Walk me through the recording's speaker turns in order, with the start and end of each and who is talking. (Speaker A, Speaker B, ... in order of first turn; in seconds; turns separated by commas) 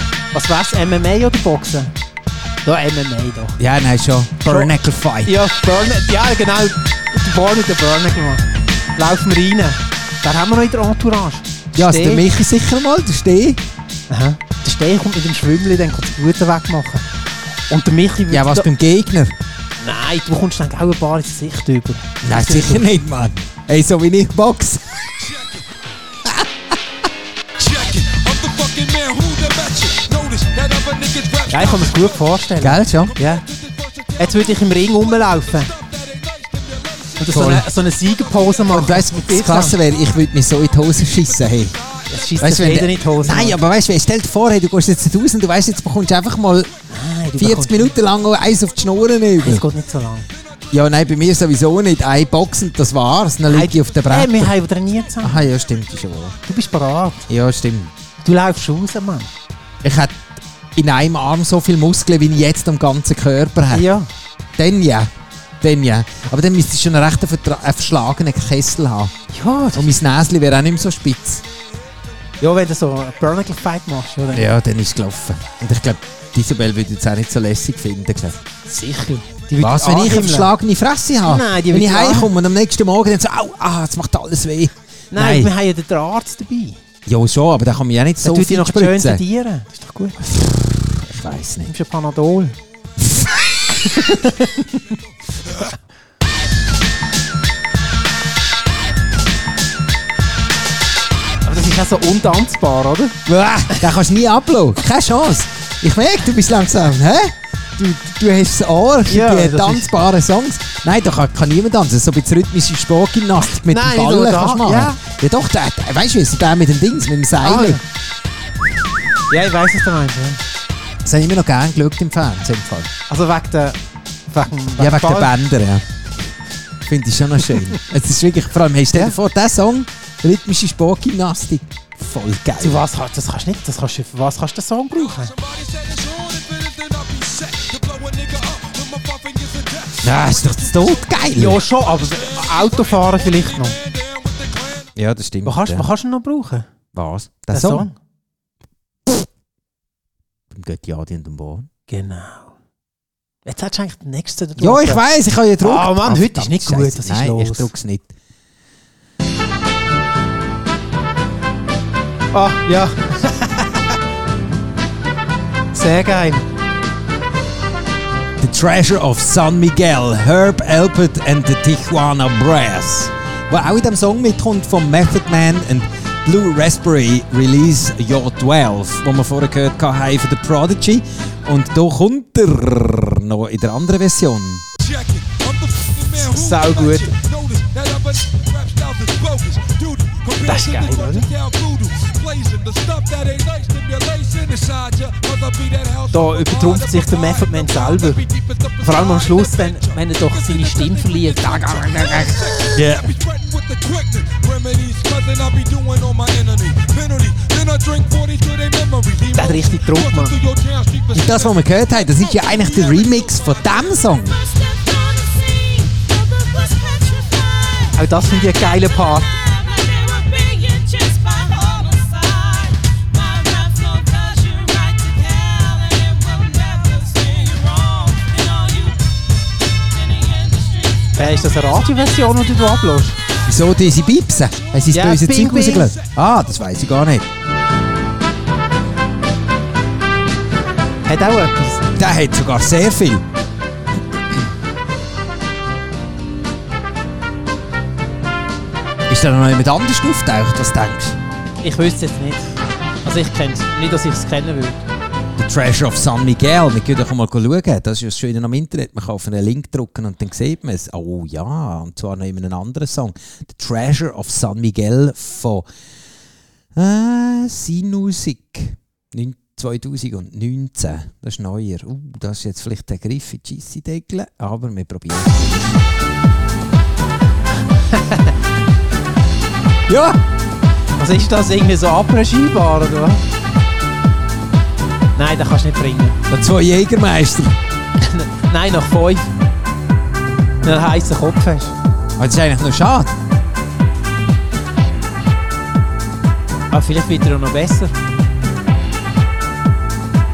Speaker A: 0.3-1.9, Speaker A: 2.6-3.6, Speaker B: 3.6-5.3, Speaker A: 4.4-4.7, Speaker A: 5.2-8.4, Speaker A: 8.9-12.2, Speaker B: 11.7-13.6, Speaker A: 14.1-17.1, Speaker A: 17.7-18.7, Speaker B: 18.3-19.3, Speaker A: 19.8-22.9, Speaker B: 22.2-25.0, Speaker C: 25.2-25.6, Speaker C: 27.6-39.0, Speaker A: 31.5-33.4, Speaker B: 32.6-33.1, Speaker A: 34.2-35.7, Speaker A: 37.2-39.8, Speaker B: 37.3-37.6, Speaker B: 38.7-41.8, Speaker C: 39.9-40.1, Speaker C: 41.0-42.4, Speaker A: 42.1-43.6, Speaker B: 42.4-46.7, Speaker A: 46.9-48.0, Speaker B: 47.4-49.6, Speaker A: 49.4-50.3, Speaker B: 50.7-54.5, Speaker A: 53.5-55.4, Speaker B: 55.2-56.4, Speaker A: 56.5-57.2, Speaker B: 57.3-57.9, Speaker A: 58.2-59.3, Speaker B: 59.8-60.2, Speaker B: 60.7-63.9, Speaker A: 63.7-64.1, Speaker B: 64.6-69.1, Speaker A: 69.3-69.9, Speaker B: 69.7-71.4, Speaker A: 72.4-74.5, Speaker B: 74.3-78.4, Speaker A: 78.7-80.5, Speaker B: 79.6-85.5, Speaker A: 81.2-82.3, Speaker A: 85.1-86.8, Speaker B: 87.0-89.2, Speaker A: 88.2-90.2, Speaker B: 91.0-91.7, Speaker A: 91.7-92.5, Speaker B: 93.1-94.0, Speaker A: 94.0-94.6, Speaker A: 101.4-103.2, Speaker B: 103.2-117.8, Speaker A: 109.0-109.9, Speaker A: 113.7-115.0, Speaker A: 117.4-117.8, Speaker A: 119.3-120.4, Speaker B: 121.0-122.9, Speaker A: 123.1-123.8, Speaker A: 124.3-125.3, Speaker B: 124.8-125.8, Speaker B: 126.8-132.8, Speaker A: 132.6-135.3, Speaker C: 134.9-144.9, Speaker B: 140.0-141.6, Speaker A: 141.3-143.8, Speaker B: 144.9-145.9, Speaker A: 145.4-146.7, Speaker B: 146.9-147.9, Speaker A: 147.5-147.9, Speaker B: 150.5-151.7, Speaker A: 151.9-152.5, Speaker A: 153.4-155.0, Speaker B: 154.6-158.1, Speaker A: 155.6-157.7, Speaker A: 162.3-164.0, Speaker A: 165.7-166.4, Speaker B: 168.4-184.6, Speaker C: 184.8-214.0, Speaker A: 186.2-187.1, Speaker A: 190.4-191.3, Speaker A: 196.1-198.2, Speaker A: 198.8-202.6, Speaker B: 202.7-203.1, Speaker A: 209.3-210.4, Speaker B: 211.1-214.4, Speaker A: 217.9-219.4, Speaker A: 231.1-233.2, Speaker B: 233.4-237.3, Speaker A: 234.9-236.0, Speaker A: 241.1-241.9, Speaker B: 241.9-243.2, Speaker B: 249.1-251.2, Speaker A: 251.6-254.8, Speaker B: 255.4-265.7, Speaker B: 266.7-275.8, Speaker A: 277.8-278.4, Speaker B: 279.9-280.2, Speaker A: 281.0-283.2, Speaker A: 285.1-286.2, Speaker B: 286.3-287.6, Speaker A: 288.0-289.3, Speaker A: 290.6-291.7, Speaker B: 292.2-293.1, Speaker A: 296.7-297.9